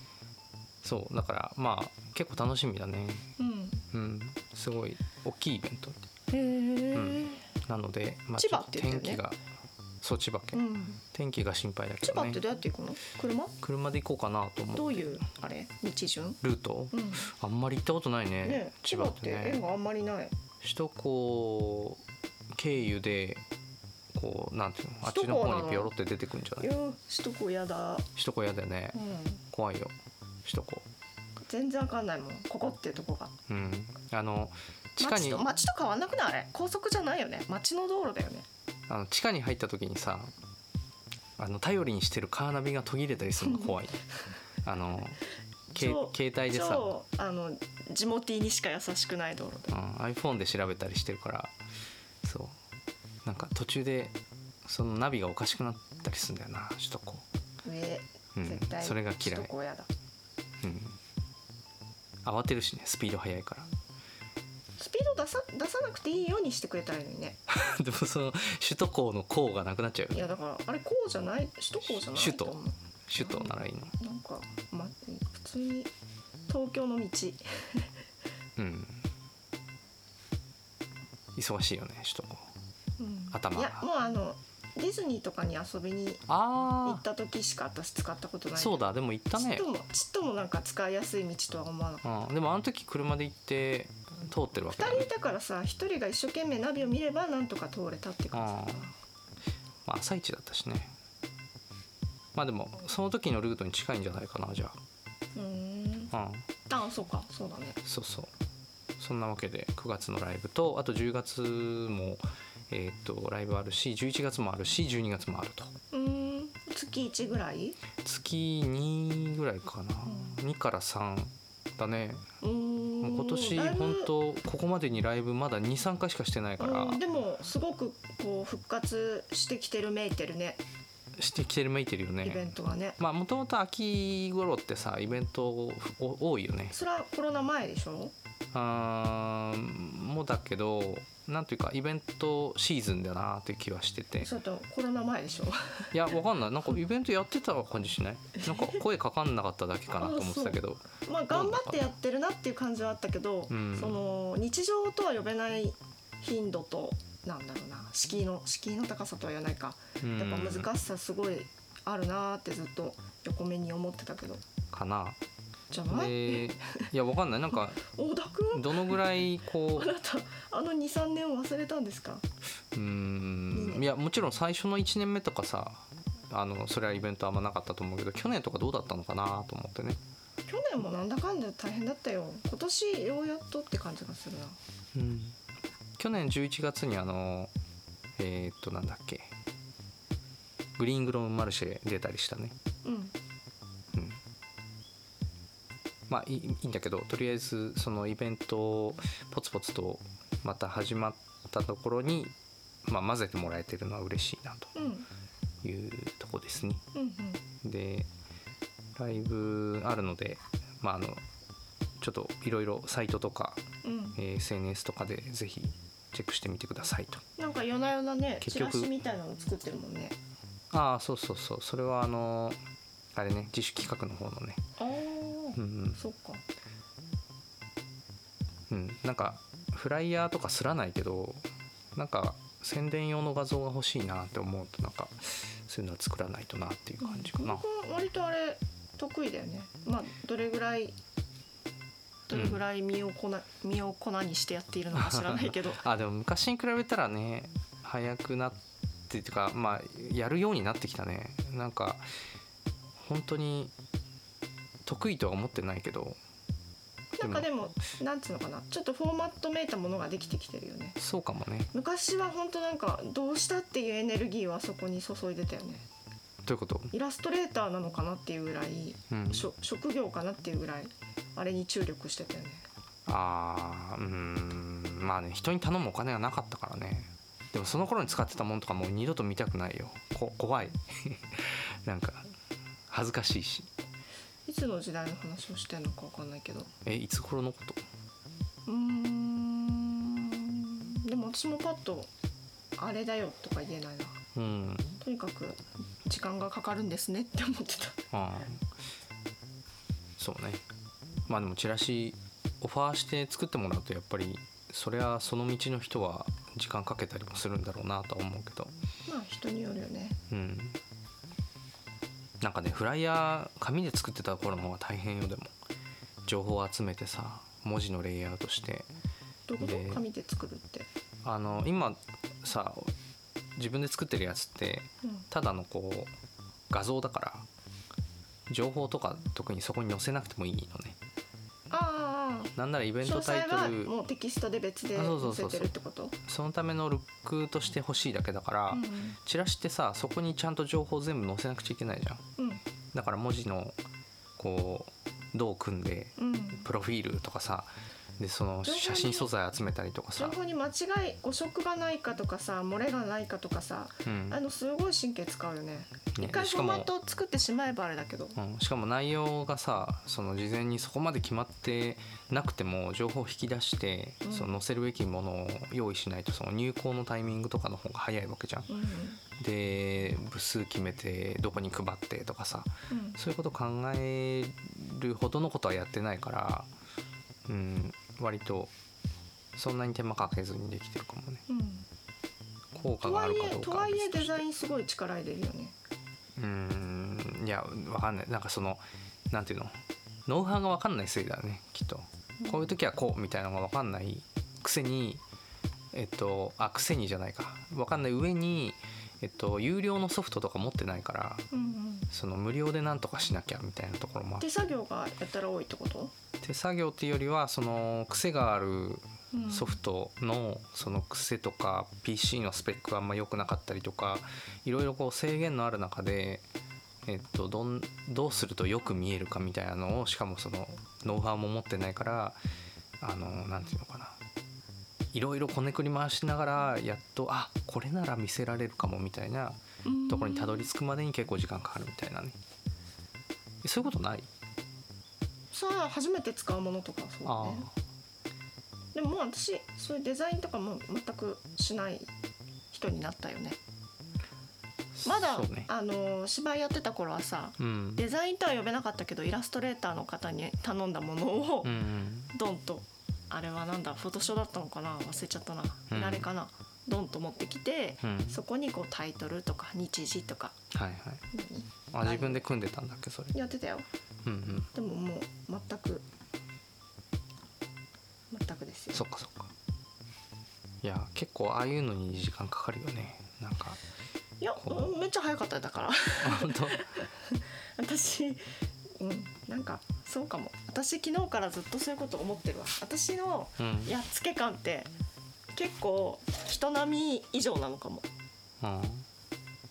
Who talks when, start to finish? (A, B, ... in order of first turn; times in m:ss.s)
0:00.8-0:03.3 A
0:03.4-0:03.8 B
0:03.9-0:06.0 A
0:06.3-0:07.5 B
0:06.9-0:09.4 A
0:08.4-0:09.2 B
0:10.0-0:10.6 A
0:10.5-0:11.0 B
0:11.1-0:12.4 A
0:12.0-0:13.6 B
0:13.6-0:15.2 A
0:14.7-0:16.4 B
0:16.4-0:19.6 A
0:16.9-0:17.3 B
0:18.4-0:20.3 B
0:20.6-0:22.0 A
0:22.5-0:23.4 A
0:24.1-0:26.7 A
0:25.1-0:25.9 B
0:26.6-0:28.1 B
0:28.2-0:29.0 A
0:28.9-0:29.4 B
0:29.5-0:30.9 A
0:31.5-0:33.3 B
0:33.5-0:35.5 A
0:35.0-0:38.5 B
0:38.9-0:40.3 A
0:41.4-0:44.0 A
0:43.4-0:43.8 B
0:44.6-0:45.2 A
0:45.7-0:46.9 A
0:45.8-0:49.8 B
0:49.7-0:51.6 A
0:52.2-0:52.6 A
0:53.2-0:57.2 A
0:57.6-0:59.9 B
0:58.4-0:59.5 A
1:00.6-1:01.0 A
1:02.2-1:03.7 A
1:04.8-1:07.4 B
1:07.5-1:10.3 A
1:10.1-1:15.9 B
1:11.8-1:13.9 A
1:16.5-1:17.9 B
1:18.6-1:19.1 A
1:21.4-1:22.5 A
1:23.0-1:26.3 B
1:23.3-1:23.9 A
1:26.3-1:27.0 A
1:26.8-1:32.0 B
1:28.6-1:29.7 A
1:32.0-1:35.1 A
1:34.7-1:39.0 B
1:38.3-1:38.9 A
1:39.9-1:40.9 A
1:42.4-1:44.8 A
1:45.4-1:46.1 B
1:46.1-1:46.4 A
1:46.7-1:47.8 B
1:47.8-1:48.3 A
1:49.0-1:55.7 A
1:55.9-1:57.8 B
1:58.0-2:02.3 A
2:00.0-2:00.4 B
2:02.4-2:04.1 B
2:03.0-2:07.0 A
2:06.6-2:10.6 B
2:11.2-2:16.8 A
2:12.2-2:13.0 B
2:16.7-2:18.1 B
2:18.5-2:24.3 A
2:24.2-2:25.9 B
2:25.9-2:31.9 A
2:28.4-2:28.8 B
2:30.0-2:44.4 B
2:33.5-2:34.0 A
2:40.0-2:40.7 A
2:44.7-2:45.2 A
2:45.7-2:46.9 B
2:45.9-2:47.8 A
2:47.8-2:49.0 B
2:48.5-2:49.9 A
2:49.7-2:52.2 B
2:52.7-3:00.0 A
2:53.5-2:53.8 B
3:00.5-3:04.6 B
3:04.9-3:05.4 A
3:06.0-3:07.5 A
3:08.2-3:09.3 A
3:10.8-3:12.6 A
3:12.8-3:13.1 B
3:13.9-3:14.2 A
3:16.1-3:24.7 A
3:24.8-3:25.1 B
3:25.6-3:26.8 A
3:26.9-3:27.4 B
3:27.6-3:28.1 A
3:29.0-3:31.2 A
3:32.0-3:33.6 A
3:33.8-3:34.2 B
3:34.2-3:37.2 A
3:37.4-3:40.2 B
3:38.4-3:38.9 A
3:40.7-3:42.6 A
3:43.1-3:44.6 A
3:44.8-3:46.4 B
3:45.6-3:46.0 A
3:48.7-3:57.6 A
3:57.0-4:01.0 B
4:02.3-4:05.8 B
4:02.3-4:02.6 A
4:05.0-4:12.0 A
4:13.0-4:13.7 A
4:14.8-4:16.2 A
4:17.2-4:21.0 B
4:17.2-4:17.5 A
4:21.0-4:21.7 A
4:21.7-4:25.9 B
4:26.4-4:26.9 A
4:26.9-4:32.6 B
4:29.1-4:29.5 A
4:33.1-4:42.3 A
4:42.9-4:43.7 A
4:44.5-4:46.7 B
4:46.8-4:47.8 A
4:48.7-4:52.1 B
4:52.8-4:54.2 B
4:54.4-4:55.0 A
4:55.0-4:58.0 B
4:58.1-4:58.7 A
5:00.2-5:00.6 A
5:01.3-5:08.8 A
5:09.1-5:10.2 B
5:10.3-5:10.8 A
5:12.4-5:15.5 A
5:16.2-5:18.9 A
5:19.5-5:20.9 B
5:19.6-5:20.0 A
5:21.2-5:22.9 A
5:23.6-5:26.1 A
5:26.7-5:27.5 A
5:28.5-5:31.0 A
5:31.7-5:36.2 B
5:32.6-5:33.9 A
5:35.0-5:35.7 A
5:36.2-5:42.2 A
5:38.7-5:39.2 B
5:42.9-5:43.8 A
5:44.4-5:50.4 A
5:46.2-5:46.7 B
5:48.6-5:49.3 B
5:50.2-5:58.4 B
5:54.0-5:54.4 A
5:56.2-5:56.9 A
5:58.4-6:08.7 A
6:04.2-6:04.6 B
6:08.7-6:09.2 B
6:09.4-6:16.7 A
6:12.9-6:13.2 B
6:17.5-6:18.7 A
6:19.6-6:21.4 A
6:21.5-6:21.9 B
6:22.7-6:24.4 A
6:23.0-6:25.8 B
6:26.4-6:29.8 A
6:30.3-6:35.2 A
6:35.9-6:41.5 A
6:41.5-6:42.1 B
6:42.1-6:44.5 A
6:44.4-6:46.1 B
6:46.4-6:56.4 A
6:49.3-6:49.8 B
6:57.0-7:02.4 A
7:03.0-7:04.2 A
7:05.1-7:12.4 A
7:09.8-7:10.7 B
7:13.6-7:14.3 A
7:15.5-7:17.7 B
7:17.2-7:17.7 A
7:18.9-7:22.1 B
7:22.7-7:23.6 B
7:25.0-7:25.7 A
7:25.0-7:31.8 B
7:27.6-7:28.0 A
7:31.6-7:32.3 A
7:32.3-7:40.6 B
7:35.9-7:36.3 A
7:38.0-7:38.4 A
7:40.7-7:41.2 A
7:41.3-7:42.5 B
7:41.9-7:43.4 A
7:43.3-7:43.9 B
7:44.2-7:44.7 A
7:44.7-7:46.0 B
7:48.3-7:49.0 B
7:48.9-7:49.5 A
7:50.8-7:53.8 A
7:54.4-7:58.4 B
7:54.6-7:55.0 A
7:56.2-7:56.9 A
7:59.0-8:04.9 B
8:03.6-8:03.9 A
8:05.6-8:08.1 B
8:08.6-8:09.1 A